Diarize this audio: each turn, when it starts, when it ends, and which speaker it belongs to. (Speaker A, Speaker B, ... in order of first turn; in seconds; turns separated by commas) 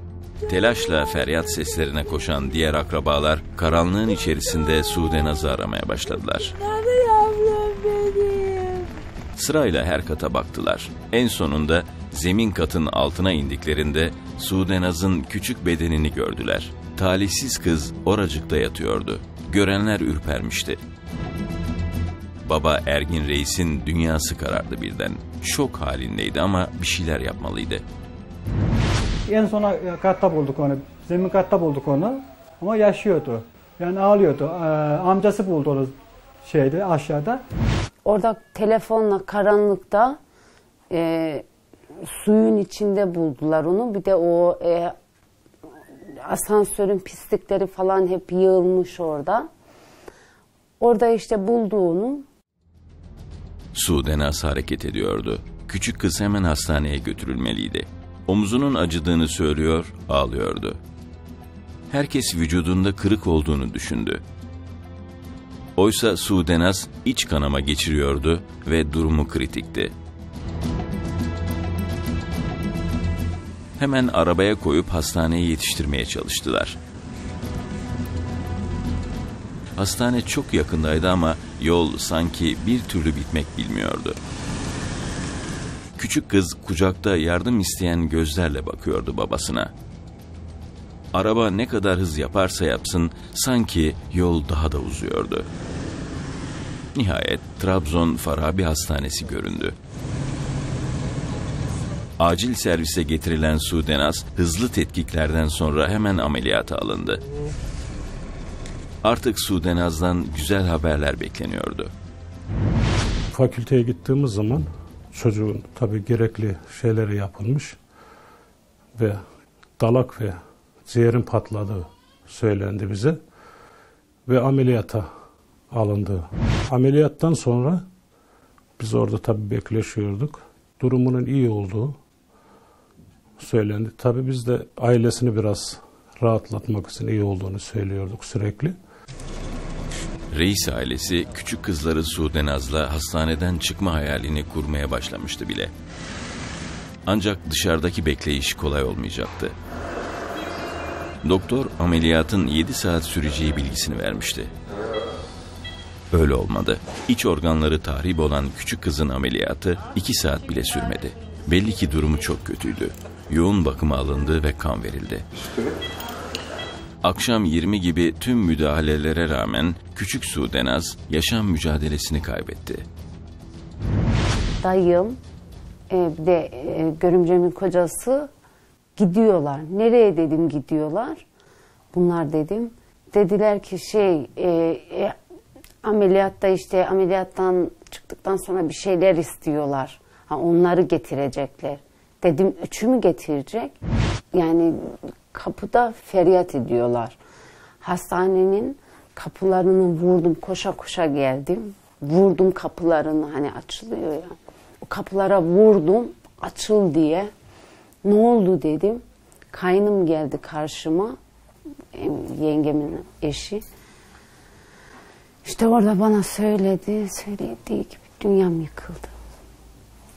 Speaker A: 0.5-6.6, Speaker B: 6.6-8.9, Speaker A: 9.3-20.8, Speaker A: 22.4-27.8, Speaker C: 29.3-35.9, Speaker C: 36.4-37.4, Speaker B: 38.0-40.2, Speaker B: 40.9-41.4, Speaker B: 42.0-44.9, Speaker B: 46.2-49.5, Speaker B: 50.8-52.2, Speaker A: 53.7-60.8, Speaker A: 61.9-64.2, Speaker A: 65.8-69.9, Speaker A: 73.8-76.8, Speaker A: 79.8-84.2, Speaker A: 86.0-89.7, Speaker A: 91.1-95.5, Speaker A: 96.9-99.8, Speaker A: 102.2-107.2, Speaker A: 109.0-111.9, Speaker D: 113.3-117.8, Speaker D: 119.8-123.2, Speaker D: 124.3-125.1, Speaker D: 125.7-127.8, Speaker D: 128.8-132.0, Speaker D: 133.4-138.7, Speaker A: 140.3-145.7, Speaker A: 147.1-149.5, Speaker A: 151.2-154.5, Speaker A: 156.1-165.2, Speaker A: 167.0-172.9, Speaker B: 174.6-175.2, Speaker B: 175.9-178.3, Speaker B: 179.0-181.2, Speaker B: 181.9-185.1, Speaker B: 185.8-193.8, Speaker B: 194.3-197.2, Speaker B: 197.8-207.3, Speaker B: 208.0-211.2, Speaker B: 211.9-213.6, Speaker B: 215.4-219.1